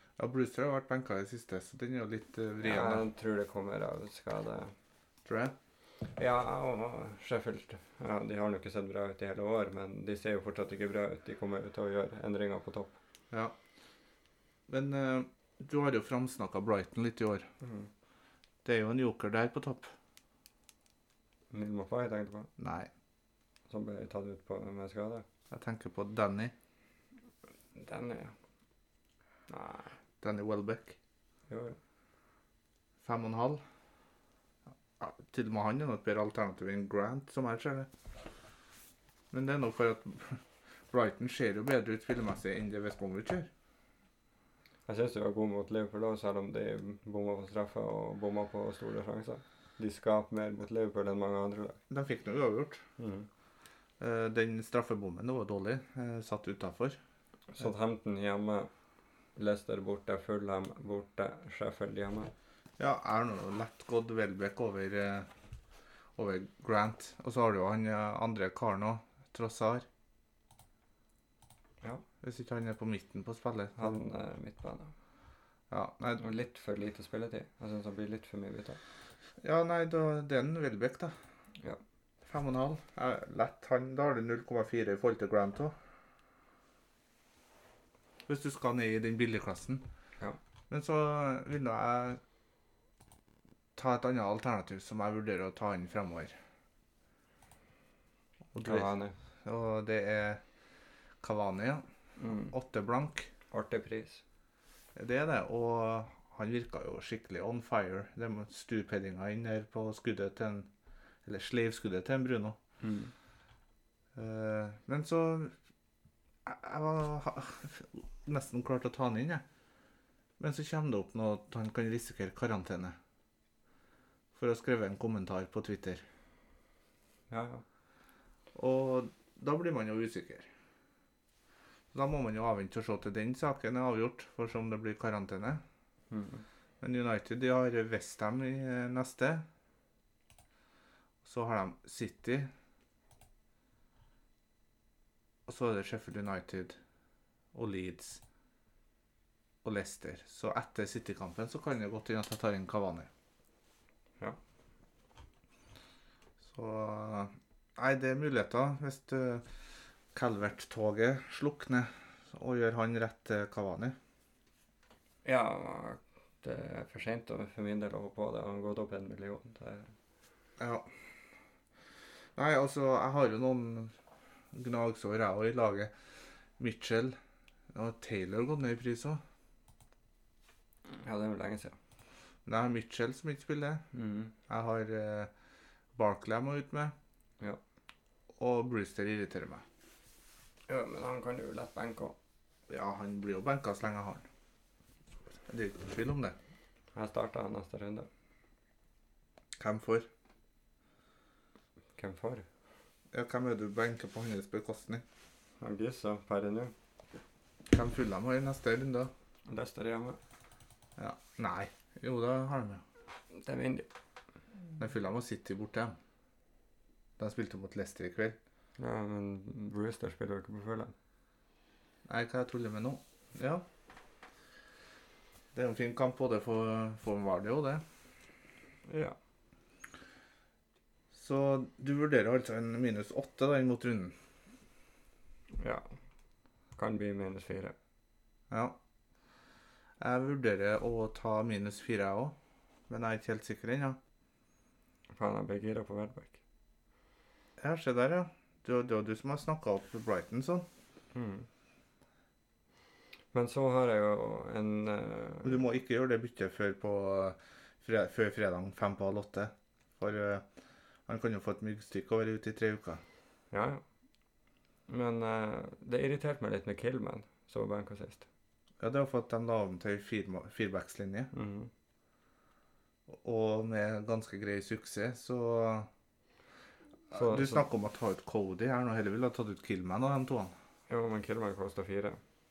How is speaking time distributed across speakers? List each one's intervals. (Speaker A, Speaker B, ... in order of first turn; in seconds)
Speaker A: 0.2-3.0, 5.2-5.5, 13.3-13.6, 14.7-17.5, 18.6-19.9, 22.6-22.9, 25.5-26.5, 30.2-31.0, 33.0-33.6, 35.0-37.9, 39.3-43.5, 51.9-52.8, 54.0-57.0, 62.8-65.3, 66.2-69.8, 72.2-74.0, 75.7-76.2, 79.4-81.1, 82.2-85.7, 88.3-89.8, 90.7-92.2, 93.8-96.3, 98.5-98.9, 99.4-100.4, 101.2-101.8, 102.5-103.3, 104.9-110.7, 111.2-112.6, 114.1-115.5, 116.4-119.4, 120.4-123.0, 124.3-126.0, 128.5-130.5, 131.9-135.6, 136.8-139.4, 141.2-142.5, 145.5-146.8, 147.5-148.2, 149.6-153.1, 156.4-159.5, 160.1-163.9, 170.6-170.9, 172.3-173.9, 174.5-175.9, 176.6-177.2, 177.7-179.2, 182.4-183.8, 184.5-185.3, 185.9-186.9, 188.4-189.6, 192.7-194.2, 195.5-196.4, 199.6-200.1, 203.1-205.0, 207.7-209.1, 211.0-212.8, 214.8-216.0, 217.2-218.4, 222.1-223.6, 225.5-227.8, 231.1-234.1, 238.5-238.8, 240.0-242.3, 242.9-244.0, 247.6-250.7, 255.4-260.4, 261.1-263.0, 268.8-271.3, 273.1-275.9, 277.1-280.5
Speaker B: 2.6-4.7, 6.2-13.0, 17.6-17.9, 21.5-22.5, 23.7-25.2, 27.7-28.4, 29.5-29.9, 31.5-31.8, 44.9-51.8, 53.0-53.3, 57.5-58.7, 59.4-62.3, 73.8-74.9, 76.2-78.8, 98.6-99.1, 102.2-102.5, 103.5-104.2, 112.8-113.1, 127.3-127.6, 136.1-136.4, 165.2-169.9, 180.9-181.8, 183.9-184.3, 190.7-192.2, 196.9-198.1, 201.9-202.4, 205.6-206.7, 209.5-210.2, 213.3-213.9, 218.8-220.9, 228.9-229.2, 235.6-235.9, 236.8-237.7, 245.1-246.4, 251.1-251.5, 253.3-255.6, 263.5-263.8, 264.9-268.2, 271.3-271.7, 277.1-277.6, 280.9-282.2